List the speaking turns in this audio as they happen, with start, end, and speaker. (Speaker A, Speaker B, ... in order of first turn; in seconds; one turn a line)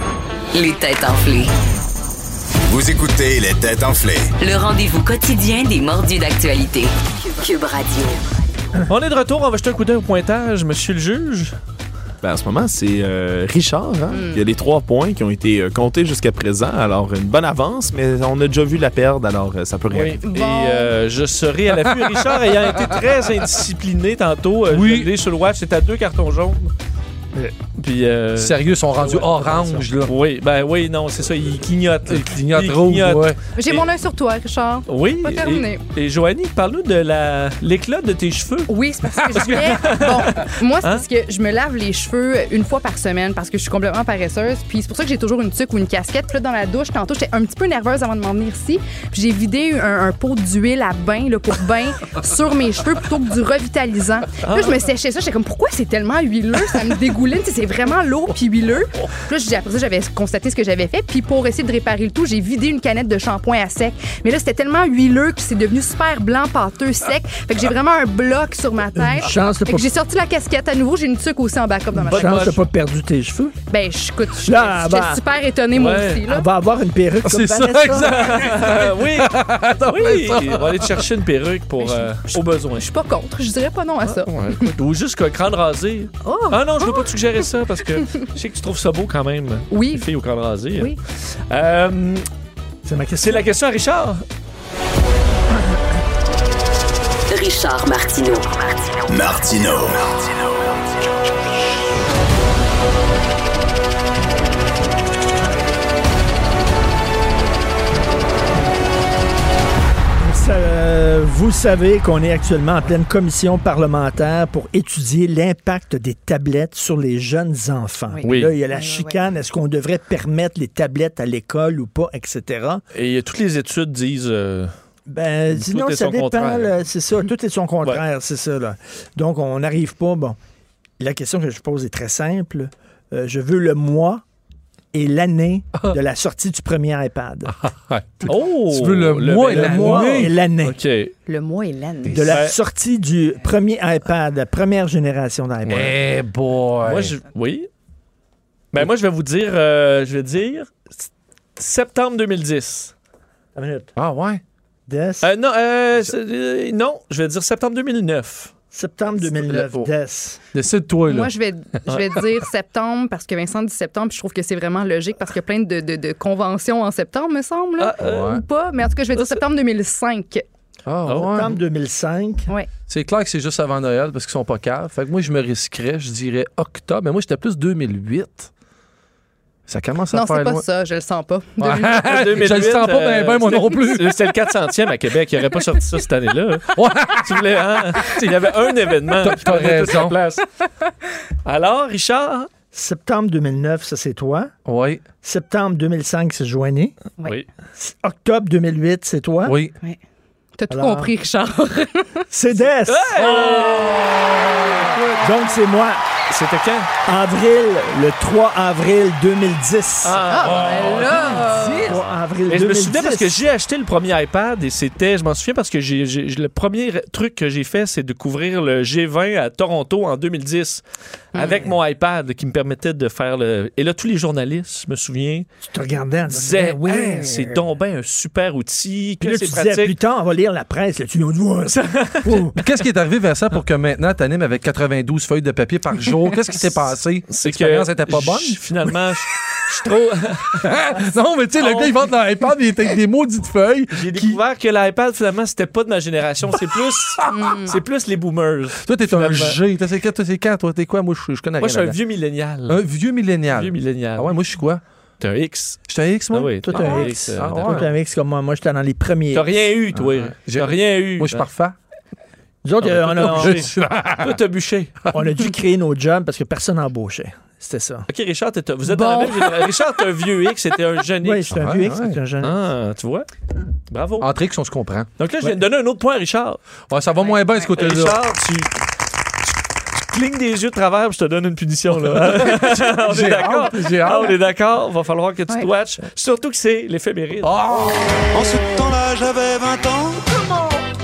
Speaker A: 0.5-1.5
Speaker B: 2.7-4.3
Speaker A: 4.3-8.2
Speaker C: 8.9-11.5
Speaker D: 12.2-20.2
Speaker E: 14.1-14.4
Speaker C: 19.9-26.7
Speaker E: 20.2-20.9
Speaker F: 24.6-25.1
Speaker C: 27.8-33.9
Speaker F: 28.4-30.1
Speaker F: 32.1-33.4
Speaker E: 33.5-35.8
Speaker C: 34.9-38.7
Speaker E: 38.7-72.5
Speaker F: 39.2-40.2
Speaker C: 39.3-41.0
Speaker C: 54.4-54.8
Speaker G: 69.0-69.9
Speaker G: 71.9-73.5
Speaker C: 72.1-72.7
Speaker E: 73.7-76.5
Speaker G: 74.4-75.2
Speaker C: 75.7-76.2
Speaker G: 76.2-78.2
Speaker F: 77.2-81.0
Speaker C: 78.1-82.9
Speaker E: 81.8-84.4
Speaker C: 84.0-91.0
Speaker E: 86.2-87.1
Speaker E: 88.0-88.2
Speaker E: 89.7-90.1
Speaker C: 91.5-92.2
Speaker G: 92.8-93.4
Speaker C: 93.2-94.2
Speaker A: 97.3-99.2
Speaker B: 99.1-100.2
Speaker G: 110.2-122.8
Speaker E: 118.1-119.3
Speaker C: 118.2-118.5
Speaker C: 122.9-124.7
Speaker G: 125.1-130.3
Speaker C: 125.5-126.8
Speaker G: 131.0-134.2
Speaker G: 134.9-137.6
Speaker F: 137.5-140.3
Speaker C: 138.2-141.1
Speaker G: 139.4-140.8
Speaker E: 141.2-142.4
Speaker G: 142.1-146.0
Speaker F: 142.1-142.4
Speaker C: 142.3-142.6
Speaker F: 145.7-147.1
Speaker C: 146.8-147.7
Speaker C: 148.7-151.0
Speaker C: 151.6-152.9
Speaker G: 153.6-153.9
Speaker F: 153.9-154.4
Speaker G: 154.9-155.3
Speaker C: 155.2-158.5
Speaker G: 158.7-160.4
Speaker F: 159.2-159.9
Speaker F: 160.5-162.0
Speaker E: 161.1-170.4
Speaker C: 167.8-168.4
Speaker F: 168.0-168.4
Speaker C: 169.1-169.4
Speaker F: 170.8-171.6
Speaker C: 171.1-171.5
Speaker G: 171.2-172.5
Speaker F: 172.9-178.5
Speaker F: 179.7-180.6
Speaker E: 180.1-182.2
Speaker F: 181.6-184.3
Speaker C: 182.0-190.4
Speaker F: 186.7-188.2
Speaker F: 189.1-190.2
Speaker C: 191.4-192.5
Speaker G: 192.7-194.5
Speaker F: 194.6-195.1
Speaker G: 195.1-196.9
Speaker G: 197.8-199.5
Speaker F: 199.4-199.7
Speaker E: 200.6-202.3
Speaker G: 200.7-201.1
Speaker G: 202.3-203.2
Speaker C: 202.9-203.9
Speaker F: 203.1-205.2
Speaker G: 205.2-206.0
Speaker C: 206.3-206.9
Speaker G: 207.1-210.2
Speaker C: 210.0-211.2
Speaker E: 210.2-212.0
Speaker F: 210.4-212.0
Speaker G: 211.7-213.4
Speaker C: 212.5-225.4
Speaker E: 221.3-221.6
Speaker G: 225.7-227.7
Speaker C: 226.3-229.9
Speaker G: 229.2-232.6
Speaker C: 231.7-232.5
Speaker F: 232.6-238.6
Speaker C: 237.2-240.6
Speaker F: 240.6-244.4
Speaker C: 241.6-242.1
Speaker C: 243.9-249.6
Speaker F: 247.2-247.7
Speaker E: 247.3-247.8
Speaker F: 248.8-252.0
Speaker C: 251.6-252.8
Speaker F: 252.7-254.8
Speaker C: 253.5-254.4
Speaker C: 255.2-255.8
Speaker F: 255.9-258.0
Speaker C: 256.3-257.9
Speaker G: 256.6-259.7
Speaker C: 259.3-261.4
Speaker F: 259.9-261.7
Speaker G: 262.6-263.7
Speaker C: 262.8-265.0
Speaker F: 263.2-264.4
Speaker F: 265.1-265.3
Speaker G: 265.1-268.1
Speaker C: 268.1-271.6
Speaker E: 268.9-269.5
Speaker G: 271.2-272.6
Speaker F: 271.5-272.2
Speaker C: 272.4-273.3
Speaker C: 273.9-274.3
Speaker F: 274.2-275.1
Speaker C: 275.2-276.6
Speaker F: 276.9-278.2
Speaker E: 277.2-277.7
Speaker C: 277.7-278.7
Speaker C: 280.1-287.5
Speaker F: 281.9-284.3
Speaker F: 287.4-288.6
Speaker H: 288.3-290.3